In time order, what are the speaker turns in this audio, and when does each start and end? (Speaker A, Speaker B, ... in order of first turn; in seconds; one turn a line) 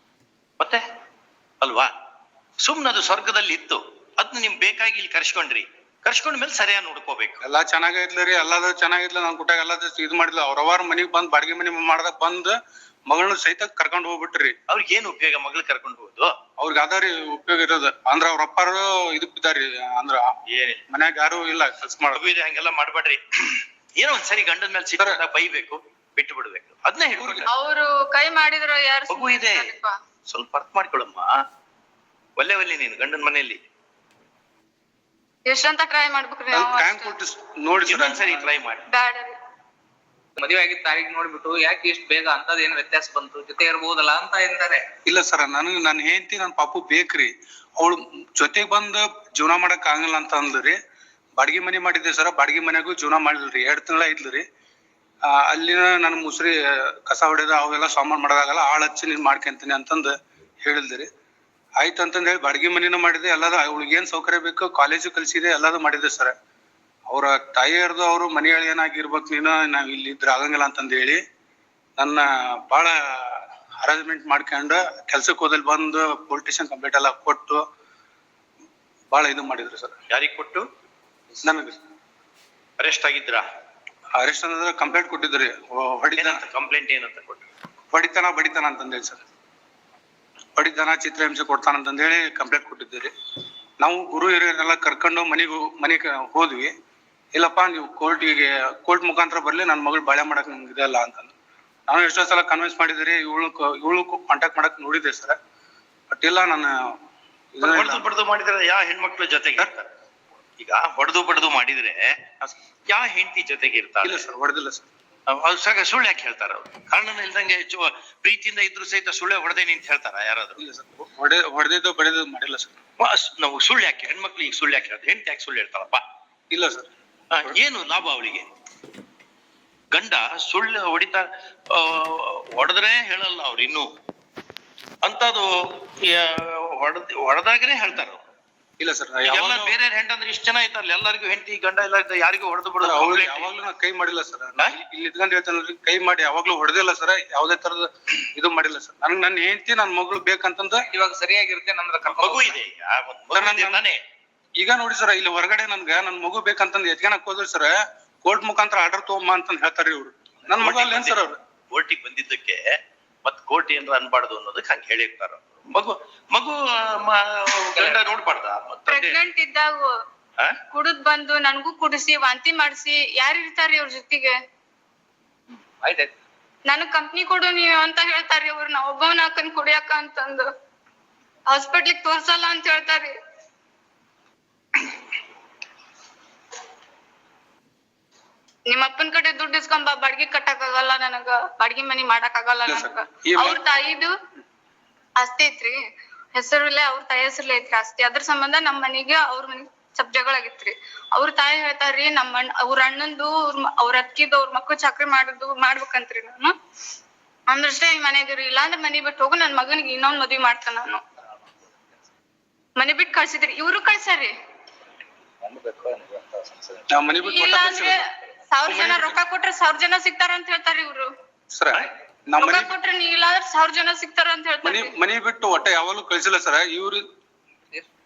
Speaker A: 1.6-1.9
Speaker A: 2.6-7.4
Speaker B: 7.4-12.6
Speaker B: 13.1-14.6
Speaker A: 14.7-16.3
Speaker B: 16.6-20.2
Speaker A: 20.5-20.8
Speaker B: 20.9-22.2
Speaker A: 22.1-27.5
Speaker B: 27.2-27.5
Speaker C: 27.5-29.9
Speaker A: 29.1-29.7
Speaker A: 30.3-31.4
Speaker A: 32.4-33.6
Speaker C: 35.5-37.1
Speaker B: 36.5-38.5
Speaker A: 37.9-38.9
Speaker C: 38.9-39.4
Speaker D: 40.4-44.9
Speaker B: 45.0-50.8
Speaker B: 51.4-54.4
Speaker B: 55.3-61.1
Speaker B: 61.8-66.3
Speaker B: 67.1-71.2
Speaker B: 72.0-77.6
Speaker B: 79.1-80.0
Speaker A: 80.1-80.7
Speaker B: 81.4-81.8
Speaker A: 82.8-83.4
Speaker B: 84.2-86.4
Speaker A: 86.2-87.5
Speaker B: 87.9-89.2
Speaker B: 90.6-93.1
Speaker B: 93.8-96.7
Speaker B: 97.3-101.3
Speaker B: 101.9-105.4
Speaker B: 106.1-106.9
Speaker B: 107.5-108.1
Speaker A: 107.6-109.9
Speaker A: 110.6-112.1
Speaker A: 112.9-114.2
Speaker B: 114.0-114.9
Speaker A: 115.3-120.6
Speaker B: 120.6-122.7
Speaker A: 123.0-126.0
Speaker B: 126.5-126.9
Speaker A: 127.3-128.5
Speaker A: 129.9-133.9
Speaker A: 135.0-138.2
Speaker B: 138.8-139.8
Speaker A: 139.2-143.5
Speaker B: 142.8-150.9
Speaker D: 150.9-152.6
Speaker A: 152.1-154.0
Speaker B: 153.3-153.8
Speaker B: 154.6-161.4
Speaker A: 160.5-161.2
Speaker A: 161.7-162.6
Speaker A: 163.2-169.2
Speaker D: 167.8-168.0
Speaker C: 168.9-169.9
Speaker C: 170.7-174.3
Speaker D: 175.5-176.1
Speaker C: 176.7-180.5
Speaker C: 181.5-183.1
Speaker C: 188.7-194.1
Speaker B: 192.7-193.6
Speaker C: 195.2-195.8
Speaker C: 196.3-206.5
Speaker C: 207.5-211.0
Speaker C: 212.8-214.3
Speaker D: 215.5-216.1
Speaker B: 216.9-218.0
Speaker C: 217.2-221.1
Speaker B: 218.7-219.2
Speaker B: 221.5-222.7
Speaker C: 222.4-224.9
Speaker B: 224.6-227.0